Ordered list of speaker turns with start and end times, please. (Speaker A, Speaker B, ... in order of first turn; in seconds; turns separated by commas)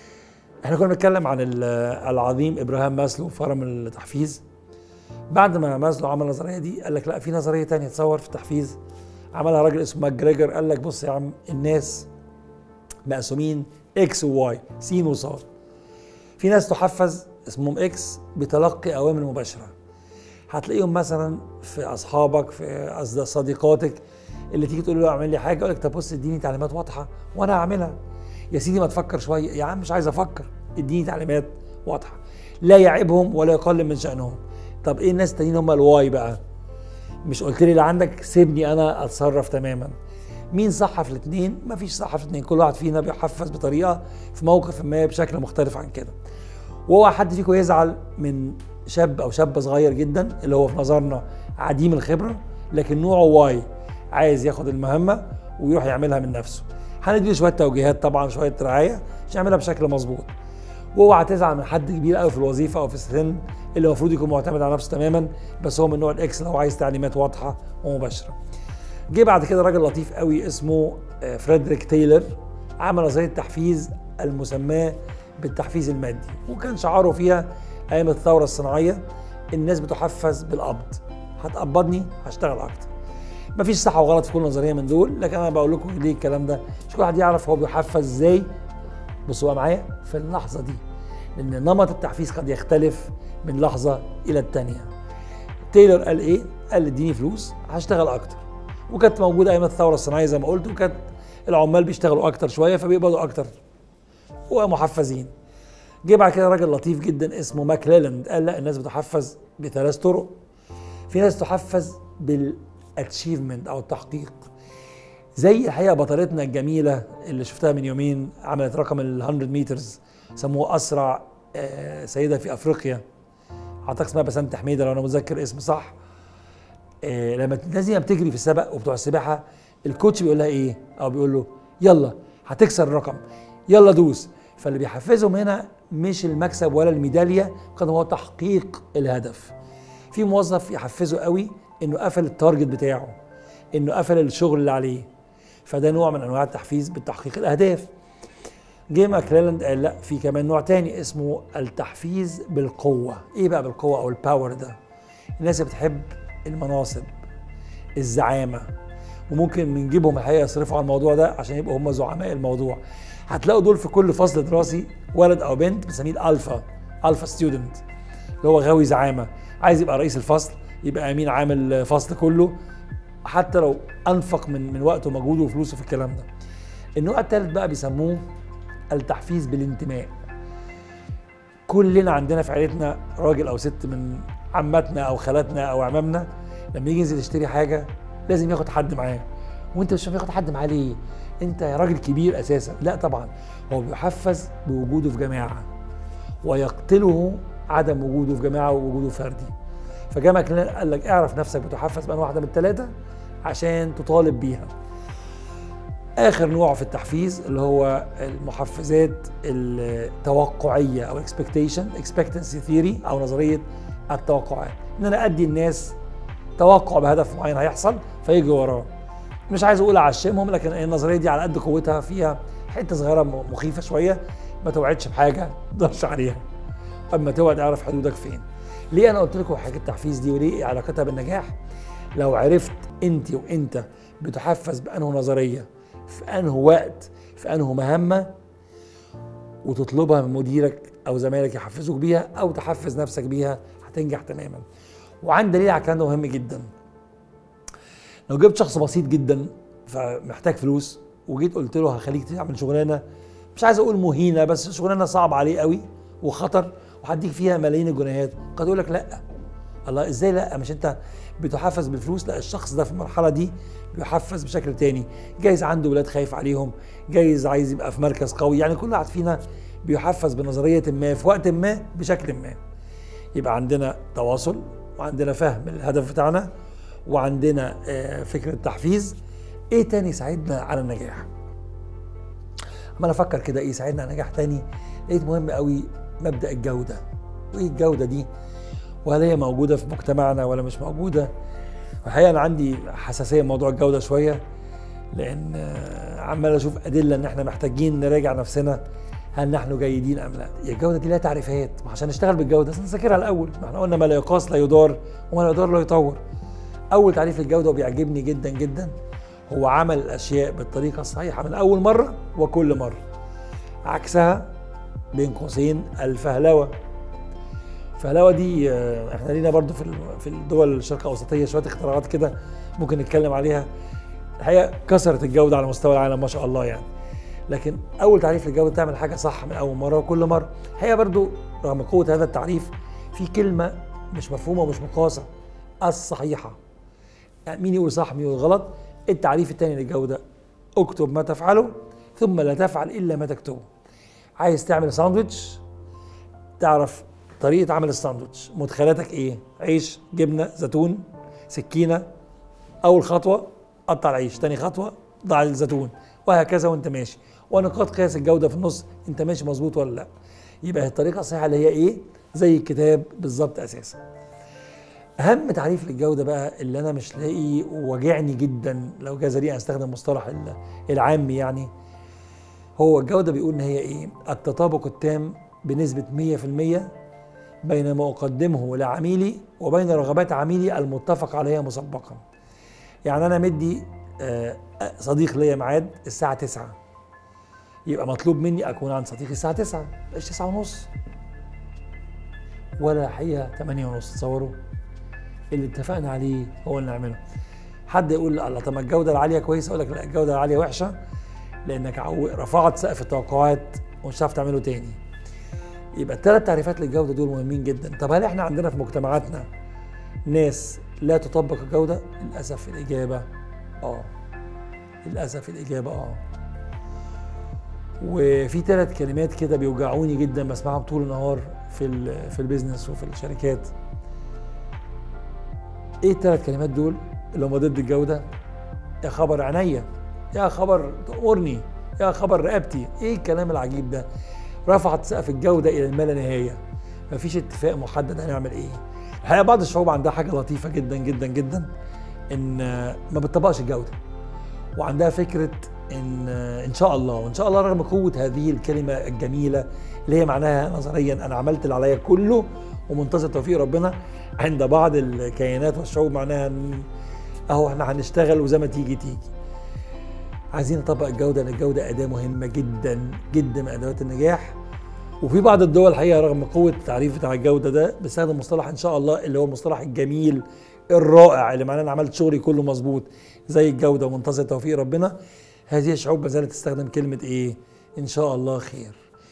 Speaker A: 0.6-4.4, Speaker A: 5.3-8.8, Speaker A: 9.3-12.1, Speaker A: 13.1-15.4, Speaker A: 16.4-19.7, Speaker A: 20.5-28.0, Speaker A: 28.5-36.4, Speaker A: 37.2-39.9, Speaker A: 40.5-46.1, Speaker A: 46.9-60.3, Speaker A: 61.0-68.4, Speaker A: 69.1-82.9, Speaker A: 83.6-88.5, Speaker A: 89.3-90.8, Speaker A: 91.4-94.9, Speaker A: 95.7-103.5, Speaker A: 104.5-105.3, Speaker A: 106.0-110.3, Speaker A: 111.1-114.5, Speaker A: 115.4-123.0, Speaker A: 123.9-126.0, Speaker A: 127.0-139.5, Speaker A: 140.1-143.2, Speaker A: 143.7-145.1, Speaker A: 145.7-147.9, Speaker A: 148.9-154.8, Speaker A: 155.4-157.1, Speaker A: 158.0-158.7, Speaker A: 159.3-167.8, Speaker A: 168.4-172.6, Speaker A: 173.2-176.3, Speaker A: 177.0-178.2, Speaker A: 178.9-180.1, Speaker A: 181.7-195.7, Speaker A: 196.4-199.5, Speaker A: 200.1-202.9, Speaker A: 203.4-204.7, Speaker A: 206.2-216.0, Speaker A: 216.6-218.9, Speaker A: 219.5-226.4, Speaker A: 227.1-231.6, Speaker A: 232.2-238.3, Speaker A: 239.6-244.7, Speaker A: 245.2-246.7, Speaker A: 248.3-253.0, Speaker A: 253.6-259.2, Speaker A: 259.9-272.6, Speaker A: 273.3-276.5, Speaker A: 277.1-279.2, Speaker A: 279.7-281.3, Speaker A: 283.0-288.3, Speaker A: 289.0-291.3, Speaker A: 292.0-294.4, Speaker A: 295.1-298.8, Speaker A: 299.4-306.2, Speaker A: 306.9-308.9, Speaker A: 309.5-313.0, Speaker A: 313.9-314.5, Speaker A: 315.1-316.7, Speaker A: 318.0-323.7, Speaker A: 324.4-326.9, Speaker A: 327.5-335.3, Speaker A: 335.8-336.6, Speaker A: 337.5-340.2, Speaker A: 340.8-343.6, Speaker A: 344.4-345.6, Speaker A: 346.6-352.1, Speaker A: 352.8-360.1, Speaker A: 360.6-364.0, Speaker A: 365.2-371.7, Speaker A: 372.8-376.9, Speaker A: 377.6-382.2, Speaker A: 383.1-386.8, Speaker A: 387.9-390.9, Speaker A: 392.8-394.6, Speaker A: 395.5-397.2, Speaker A: 397.9-401.0, Speaker A: 401.6-405.0, Speaker A: 406.0-409.5, Speaker A: 410.3-413.3, Speaker A: 413.8-414.1, Speaker A: 415.1-416.2, Speaker A: 418.0-423.7, Speaker A: 426.0-428.3, Speaker A: 429.0-434.1, Speaker A: 434.7-441.7, Speaker A: 442.3-444.0, Speaker A: 444.8-456.9, Speaker A: 457.5-459.3, Speaker A: 460.5-464.6, Speaker A: 465.2-475.2, Speaker A: 475.7-479.0